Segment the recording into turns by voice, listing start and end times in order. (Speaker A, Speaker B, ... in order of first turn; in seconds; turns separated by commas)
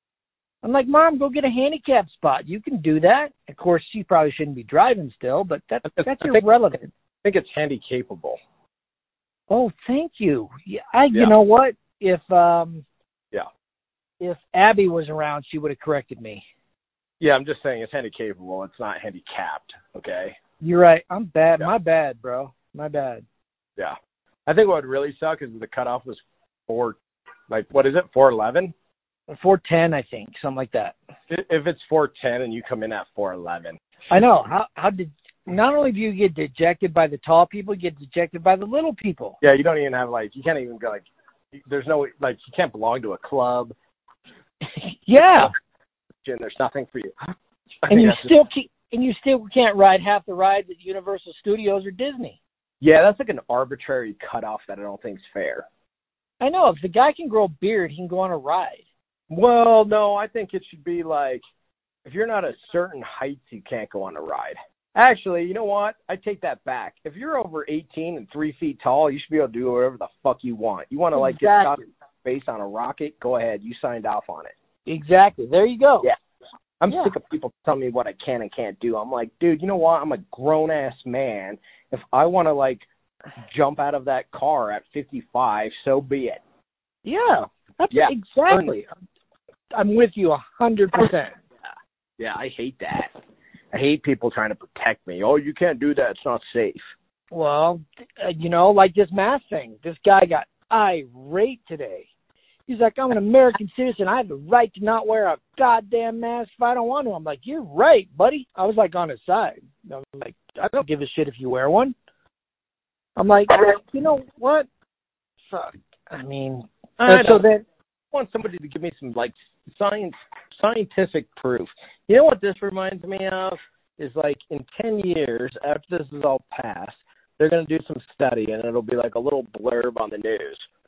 Speaker A: 0.6-6.9, Speaker B: 5.9-6.4, Speaker B: 7.2-8.4, Speaker A: 9.5-12.8, Speaker A: 14.2-16.4, Speaker B: 17.2-20.4, Speaker A: 20.6-23.2, Speaker B: 23.8-27.0, Speaker B: 27.5-28.7, Speaker A: 29.3-30.9, Speaker B: 31.3-33.8, Speaker A: 34.1-39.4, Speaker B: 39.4-43.7, Speaker A: 44.8-45.5, Speaker B: 46.2-48.3, Speaker A: 47.9-52.4, Speaker B: 52.8-55.7, Speaker A: 56.4-58.8, Speaker B: 59.3-61.4, Speaker B: 62.0-74.5, Speaker A: 71.2-71.8, Speaker A: 74.9-76.1, Speaker B: 76.8-82.8, Speaker B: 83.5-86.4, Speaker A: 87.0-88.9, Speaker B: 87.9-88.7, Speaker A: 89.7-91.3, Speaker B: 92.2-93.1, Speaker B: 93.7-96.9, Speaker A: 97.3-102.1, Speaker A: 102.7-112.0, Speaker A: 113.2-114.7, Speaker A: 115.5-117.6, Speaker B: 117.0-117.5, Speaker B: 118.1-130.7